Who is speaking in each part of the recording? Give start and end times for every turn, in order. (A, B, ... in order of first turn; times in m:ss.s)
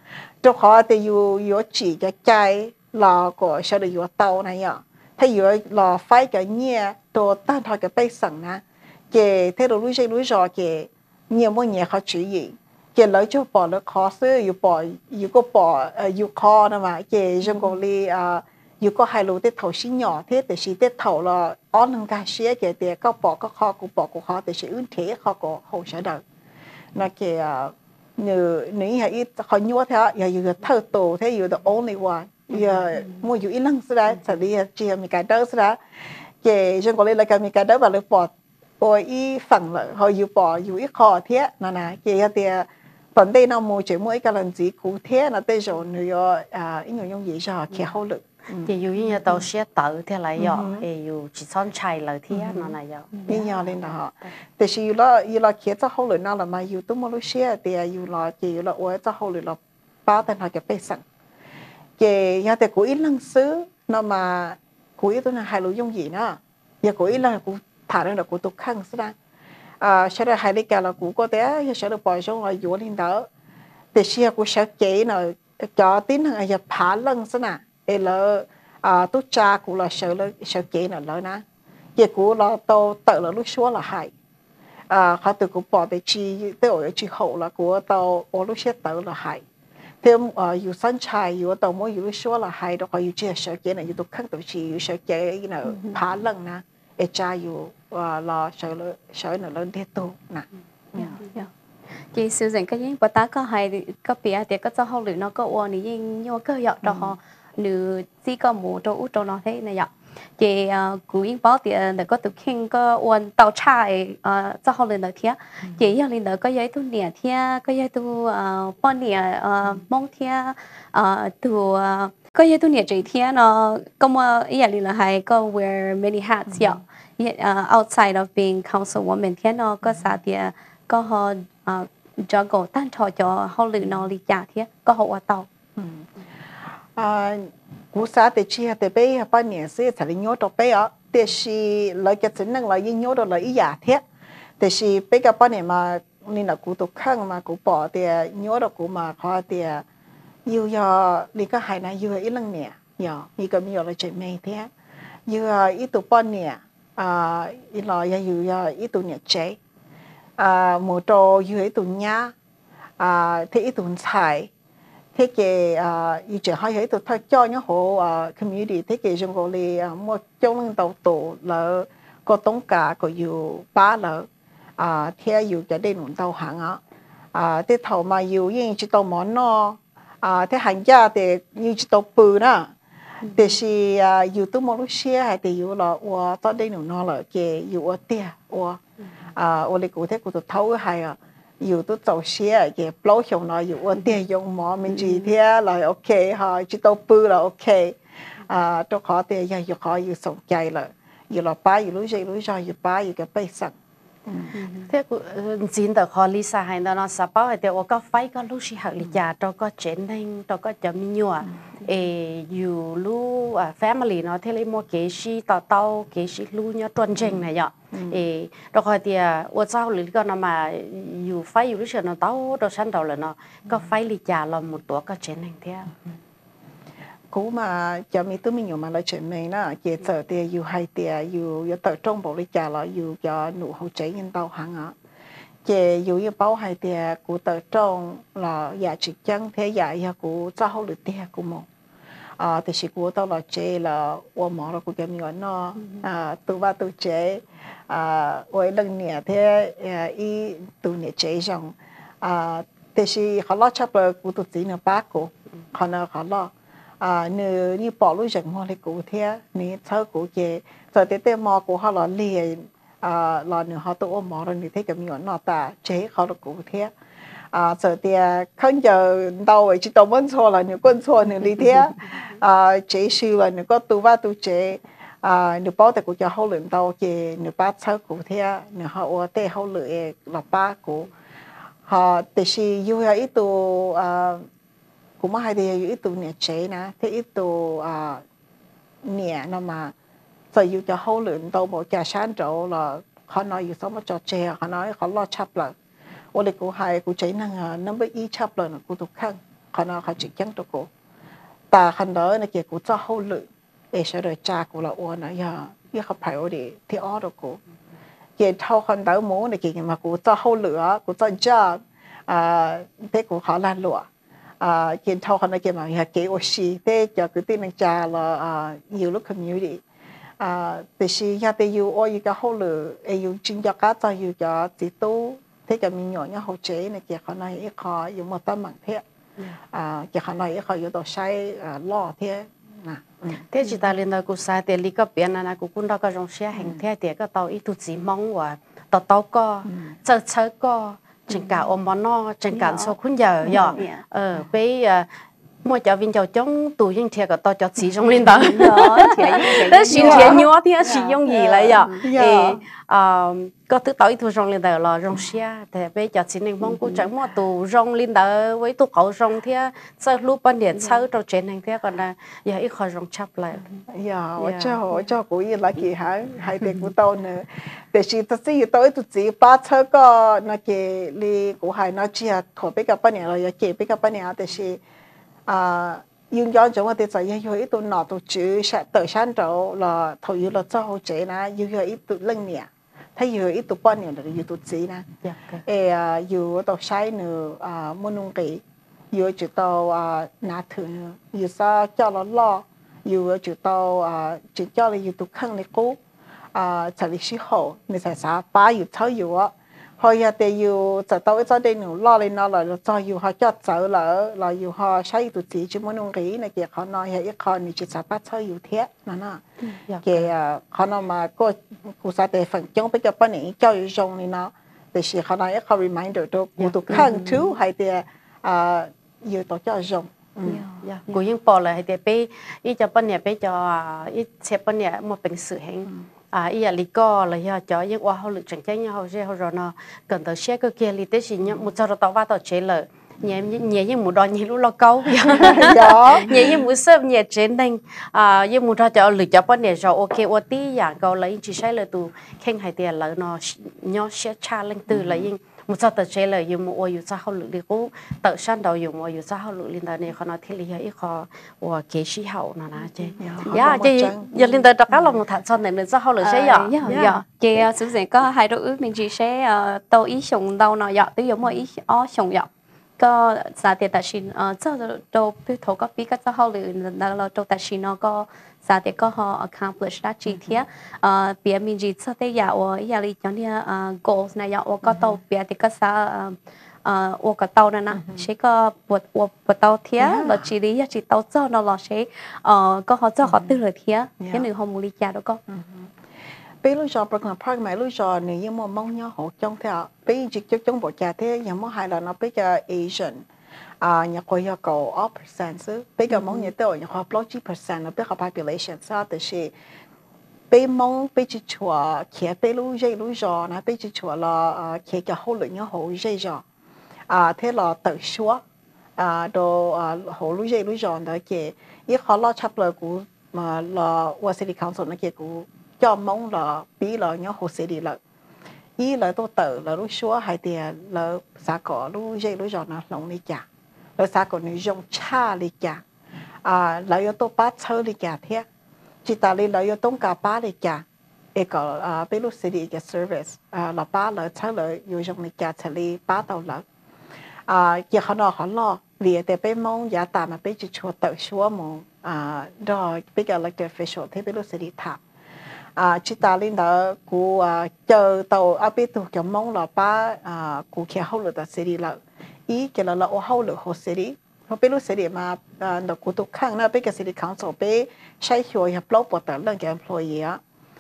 0:00.4-0:26.2 A
0:17.4-0:17.8 B
0:26.9-0:35.8 A
0:32.9-0:33.2 B
0:36.4-0:48.7 A
0:48.6-0:53.1 C
0:50.4-0:50.8 A
0:52.3-0:52.7 A
0:53.1-0:53.5 B
0:53.3-1:01.0 A
1:02.0-1:09.1 A
1:09.8-1:13.3 A
1:13.9-1:21.4 A
1:22.0-1:24.1 A
1:24.9-1:29.4 A
1:30.0-1:41.2 A
1:35.6-1:36.0 B
1:41.0-1:41.5 B
1:42.1-2:15.5 B
1:46.8-1:47.1 A
2:06.5-2:06.8 A
2:15.8-2:16.1 A
2:17.0-2:24.0 A
2:24.6-2:29.8 A
2:30.4-2:34.7 A
2:35.3-2:39.6 A
2:40.4-2:42.3 A
2:43.0-2:44.5 A
2:45.1-2:54.3 A
2:54.8-2:56.8 A
2:57.3-3:02.7 A
3:03.2-3:03.6 B
3:03.3-3:08.8 A
3:09.3-3:23.7 A
3:24.2-3:24.5 A
3:24.5-3:24.9 B
3:24.9-3:45.9 C
3:37.2-3:38.2 A
3:47.3-3:54.9 A
3:55.6-4:01.7 A
4:02.4-4:26.9 A
4:27.5-4:41.1 A
4:41.9-4:44.4 A
4:45.2-4:48.2 A
4:49.0-4:49.9 A
4:50.5-4:55.7 A
4:56.3-5:00.9 A
5:01.7-5:07.6 A
5:08.4-5:14.1 A
5:14.6-5:19.8 A
5:20.4-5:29.0 A
5:29.7-5:33.4 A
5:33.5-5:45.0 C
5:36.5-5:36.8 A
5:39.6-5:39.9 A
5:42.5-5:42.9 B
5:43.4-5:43.8 A
5:43.5-5:44.0 B
5:45.6-6:03.7 C
5:48.3-5:52.0 B
5:49.9-5:50.5 A
5:51.4-5:52.6 A
6:00.8-6:01.0 B
6:03.9-6:14.8 A
6:04.4-6:04.8 C
6:15.5-6:25.1 A
6:25.2-6:25.6 C
6:25.6-6:36.0 A
6:36.5-6:49.4 A
6:49.9-6:50.3 C
6:50.0-7:00.6 A
6:56.6-6:57.1 C
6:56.9-6:57.2 B
7:00.4-7:01.2 B
7:00.8-7:37.1 C
7:15.3-7:16.6 A
7:24.9-7:25.3 A
7:32.8-7:33.7 B
7:33.2-7:34.3 A
7:34.9-7:35.2 A
7:36.2-8:05.4 B
7:36.9-7:37.2 A
7:50.3-7:50.6 A
7:54.8-7:55.2 A
7:57.9-7:58.3 A
8:00.0-8:00.5 A
8:03.2-8:03.6 A
8:04.2-8:04.5 A
8:05.5-8:05.9 A
8:06.6-8:13.2 A
8:13.8-8:19.5 A
8:16.1-8:16.5 B
8:20.5-8:26.4 A
8:27.1-8:28.4 A
8:29.0-8:38.0 A
8:38.8-8:43.4 A
8:44.0-8:45.8 A
8:46.4-8:48.4 A
8:49.0-8:56.6 A
8:57.5-9:05.0 A
9:05.8-9:12.0 A
9:12.5-9:20.4 A